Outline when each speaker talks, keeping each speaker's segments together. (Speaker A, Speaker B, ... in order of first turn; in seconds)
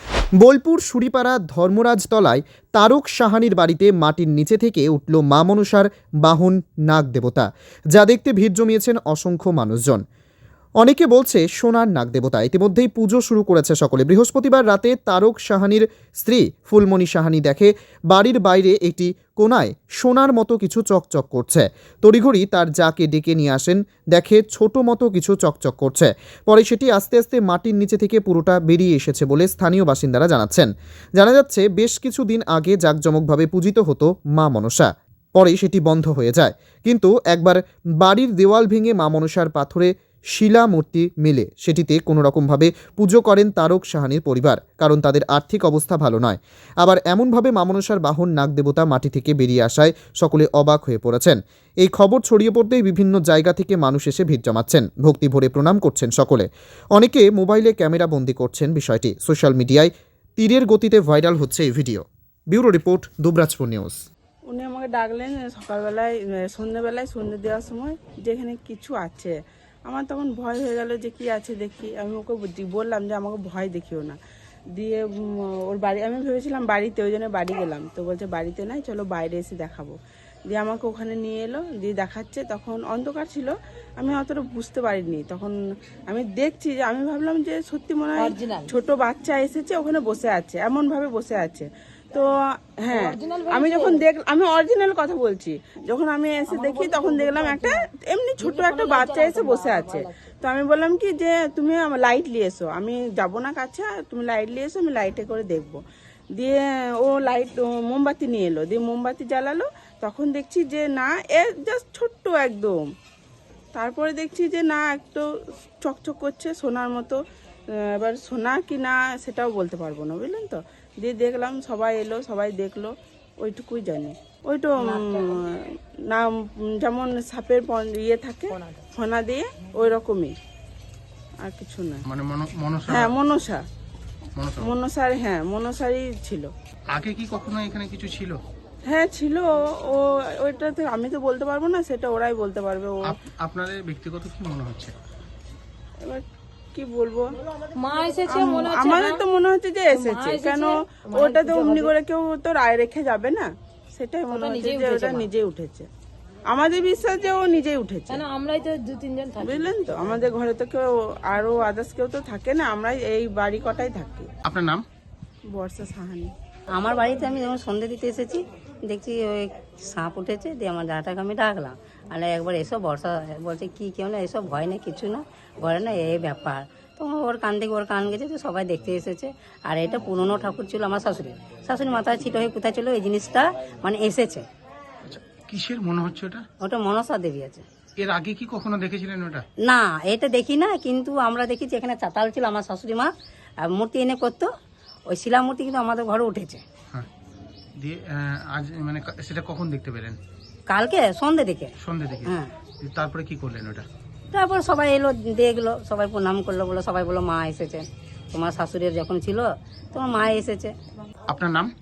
Speaker A: 0.4-10.0, 10.8-64.0
Speaker B: 64.5-69.3, 69.8-74.2, 74.7-79.9, 80.5-85.5, 86.1-105.8, 106.3-112.8, 113.7-115.2, 115.8-117.2, 117.7-130.3, 131.4-132.0, 132.9-133.6, 134.6-136.5, 138.8-143.1, 146.0-147.3, 148.2-155.9, 156.5-158.2, 159.4-164.3, 165.5-166.3
Speaker C: 88.2-88.7, 92.9-94.0, 96.5-97.8, 98.4-100.1, 147.8-149.2, 149.9-151.9, 154.3-155.3, 158.1-159.6
Speaker D: 132.1-133.1, 134.4-134.7, 136.9-138.4, 143.1-144.9, 164.4-164.8, 185.1-186.4, 188.0-189.4, 197.8-200.2, 201.8-203.8, 211.3-211.7
Speaker E: 166.7-184.5, 186.6-187.6, 189.6-194.5, 195.1-196.6, 200.7-201.7, 202.2-202.5, 204.3-210.7